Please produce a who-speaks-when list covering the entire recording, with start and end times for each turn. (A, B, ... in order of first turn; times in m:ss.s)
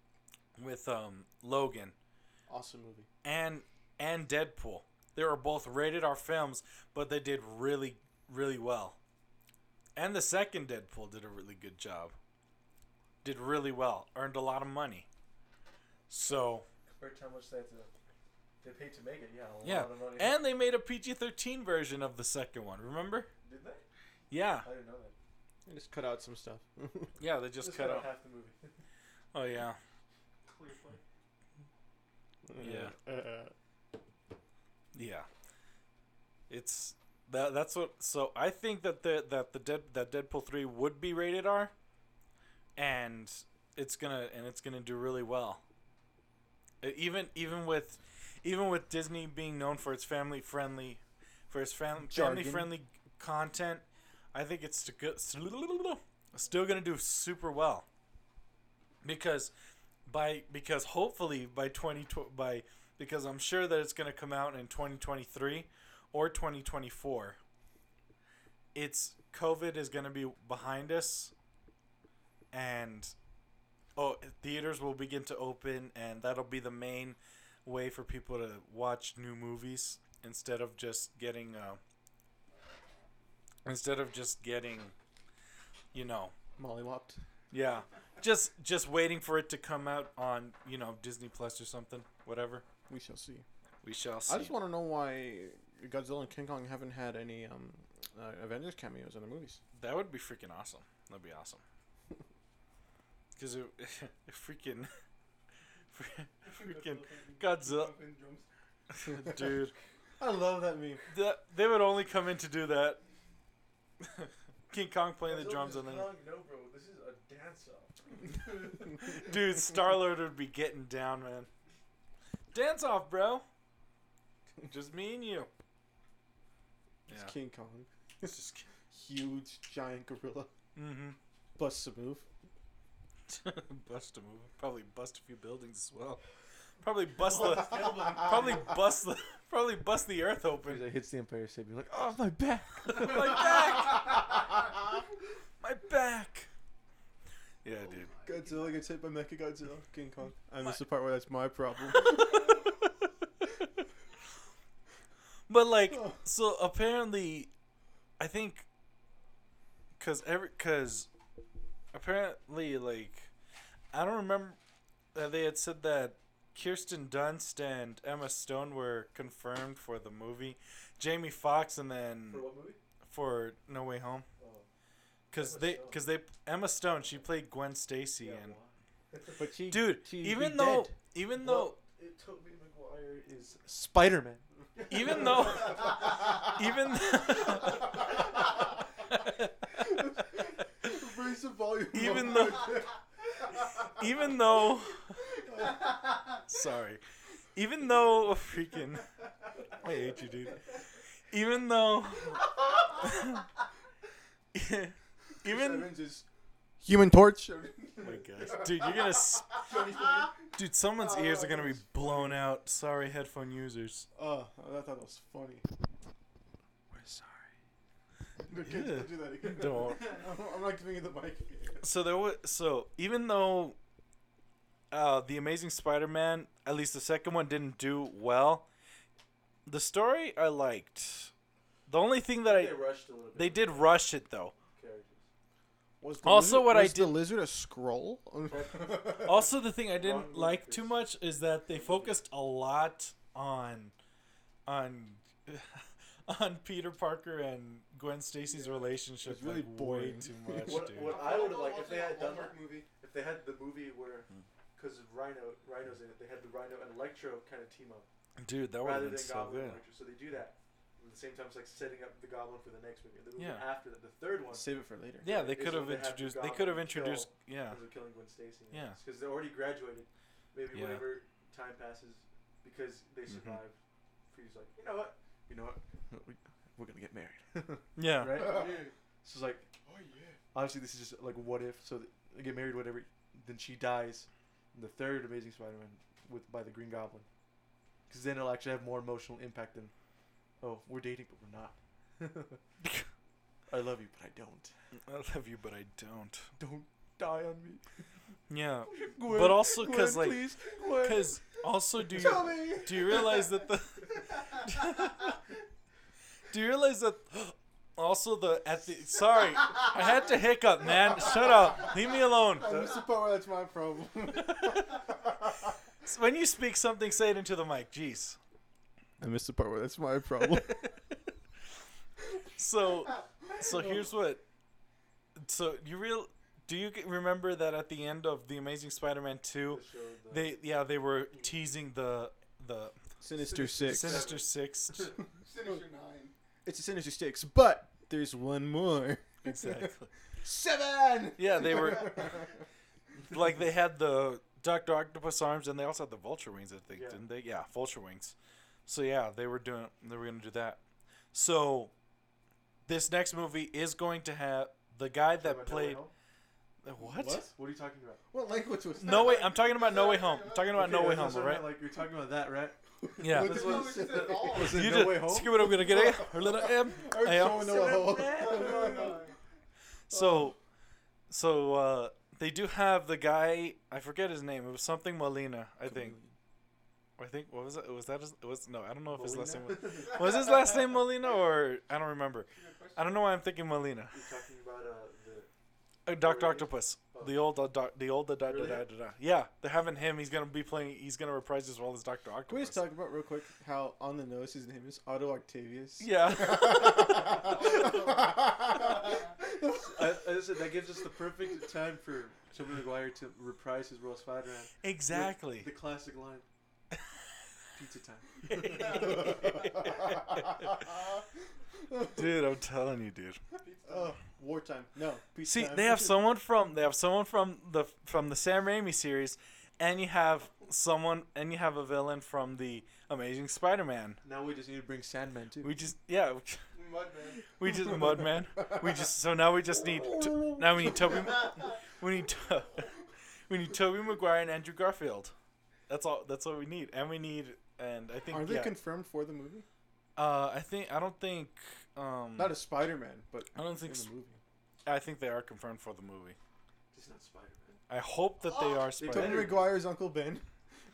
0:00.6-0:01.9 A
0:02.5-0:03.1 B
0:03.2-0:09.0 A
0:10.0-0:12.1 A
0:13.2-0:15.0 A
0:16.1-0:16.6 A
0:16.9-0:17.9 C
0:18.6-0:20.4 C
0:19.6-0:23.3 A
0:23.4-0:23.8 C
0:24.3-0:24.7 A
0:24.6-0:25.1 C
0:25.6-0:27.1 B
0:27.2-0:28.1 A
0:27.6-0:28.7 C
0:29.3-0:29.8 A
0:30.5-0:31.0 D
0:32.4-0:33.5 B
0:32.6-0:32.9 A
0:34.9-0:35.3 A
0:36.5-0:41.7 A
0:42.8-0:45.6 A
0:46.8-0:57.8 A
0:52.1-0:52.7 B
0:59.0-0:59.5 A
1:00.0-1:07.4 A
1:08.7-1:11.3 A
1:12.5-1:13.1 A
1:14.0-1:21.8 A
1:23.6-1:24.9 A
1:25.9-1:26.3 A
1:26.6-1:27.2 B
1:27.5-1:32.6 A
1:32.9-1:33.4 B
1:33.8-1:34.6 A
1:34.3-1:39.6 B
1:39.7-1:41.6 A
1:43.4-1:44.9 A
1:45.9-1:47.9 A
1:46.4-1:48.5 D
1:48.9-1:49.7 A
1:50.2-1:51.0 B
1:51.1-1:53.0 A
1:54.1-1:56.1 A
1:55.2-1:58.7 C
1:59.0-2:01.5 A
2:02.5-2:03.4 A
2:04.6-2:05.5 A
2:07.1-2:08.3 B
2:07.1-2:07.3 A
2:08.2-2:08.6 A
2:08.9-2:10.5 B
2:10.7-2:11.2 A
2:11.6-2:12.2 B
2:13.3-2:16.2 A
2:16.8-2:20.9 A
2:17.2-2:18.6 D
2:20.6-2:24.0 C
2:22.8-2:24.3 A
2:25.6-2:26.5 A
2:27.6-2:28.1 A
2:28.0-2:28.8 D
2:28.2-2:32.5 B
2:32.0-2:33.1 A
2:35.5-2:37.5 A
2:38.2-2:38.6 A
2:40.0-2:41.1 A
2:41.9-2:43.3 A
2:43.9-2:44.6 A
2:45.1-2:52.5 A
2:52.3-2:52.8 C
2:53.0-2:54.3 A
2:54.4-2:54.7 C
2:55.3-2:58.6 A
2:55.3-2:56.0 C
2:58.2-3:05.9 C
2:59.4-3:00.1 B
2:59.7-3:01.8 A
3:04.9-3:08.2 A
3:09.1-3:09.8 A
3:09.8-3:12.9 B
3:11.9-3:12.8 A
3:13.8-3:15.2 A
3:15.4-3:15.8 B
3:16.5-3:17.0 A
3:17.5-3:19.1 A
3:19.7-3:20.6 A
3:21.3-3:23.4 A
3:24.5-3:25.9 A
3:25.4-3:26.2 B
3:26.8-3:28.7 B
3:28.0-3:29.8 A
3:29.6-3:30.3 B
3:30.5-3:34.1 A
3:31.0-3:32.3 B
3:34.1-3:35.7 B
3:36.9-3:37.5 A
3:38.4-3:41.9 B
3:38.5-3:40.2 A
3:41.8-3:43.8 A
3:44.9-3:48.6 A
3:49.6-3:51.3 A
3:51.9-3:52.8 A
3:52.4-3:54.0 C
3:53.3-3:54.5 A
3:54.7-3:55.2 C
3:56.0-3:59.3 B
3:56.2-3:57.2 A
3:58.5-4:01.0 C
3:59.2-4:03.9 A
4:01.7-4:02.2 C
4:04.6-4:11.2 A
4:09.2-4:18.1 C
4:10.4-4:10.9 B
4:11.0-4:12.8 D
4:18.4-4:19.8 A
4:18.8-4:24.7 C
4:23.4-4:23.6 A
4:24.5-4:25.3 B
4:25.2-4:33.8 C
4:25.2-4:27.8 A
4:28.7-4:29.0 A
4:30.7-4:31.0 A
4:33.3-4:33.6 A
4:34.3-4:39.7 C
4:38.0-4:38.6 A
4:38.4-4:38.9 D
4:39.8-4:40.4 D
4:40.5-4:47.2 C
4:48.1-4:49.9 C
4:50.6-4:52.6 C
4:53.7-4:54.7 C
4:55.0-4:56.5 A
4:56.6-4:57.8 C
4:58.5-5:05.3 A
4:58.9-5:01.3 C
5:02.2-5:03.5 D
5:06.5-5:12.9 A
5:12.6-5:15.7 B
5:14.3-5:15.0 A
5:16.0-5:18.4 A
5:19.2-5:20.8 B
5:20.5-5:20.9 A
5:22.6-5:24.4 A
5:25.4-5:35.2 A
5:29.7-5:30.6 C
5:33.2-5:34.4 B
5:33.3-5:34.1 C
5:34.0-5:34.4 D
5:35.0-5:35.8 B
5:35.3-5:36.3 D
5:36.6-5:42.5 B
5:39.4-5:40.1 A
5:41.4-5:42.4 A
5:43.3-5:48.3 A
5:46.9-5:47.2 C
5:48.8-5:50.8 A
5:51.3-5:51.9 A
5:52.8-5:56.0 A
5:55.4-5:56.1 C
5:56.8-5:57.5 A
5:57.1-5:57.4 B
5:57.1-5:58.2 C
5:58.3-5:59.6 B
5:59.0-6:01.7 A
5:59.1-6:00.8 D
6:00.7-6:05.7 C
6:03.2-6:04.0 A
6:03.2-6:04.3 B
6:03.4-6:04.8 D
6:04.6-6:08.1 A
6:05.6-6:09.2 B
6:07.4-6:09.3 D
6:08.5-6:09.0 C
6:10.1-6:10.6 A
6:10.1-6:10.5 B
6:11.3-6:16.2 A
6:15.8-6:16.3 C
6:17.2-6:24.2 A
6:19.1-6:20.3 C
6:22.5-6:23.3 D
6:24.1-6:25.5 C
6:26.0-6:32.8 A
6:26.2-6:27.5 C
6:28.4-6:28.8 C
6:32.5-6:40.1 B
6:36.0-6:37.2 A
6:37.2-6:38.5 D
6:39.6-6:46.4 C
6:44.8-6:45.7 A
6:47.8-6:49.6 C
6:48.4-6:50.9 A
6:48.8-6:49.5 D
6:49.4-6:51.0 B
6:51.9-6:52.2 B
6:52.1-6:53.4 A
6:53.6-6:54.2 D
6:53.8-6:55.9 B
6:55.4-7:04.2 A
6:55.7-6:56.0 C
7:04.2-7:05.7 C
7:05.6-7:06.6 A
7:06.7-7:07.5 D
7:07.6-7:12.9 A
7:09.8-7:11.5 B
7:13.5-7:15.3 A
7:15.9-7:18.8 A
7:18.3-7:19.6 B
7:20.2-7:22.6 A
7:22.4-7:24.4 B
7:23.5-7:24.1 A
7:24.8-7:26.4 A
7:26.9-7:27.8 C
7:27.9-7:29.5 A
7:28.4-7:28.9 D
7:29.0-7:29.7 C
7:29.0-7:30.4 B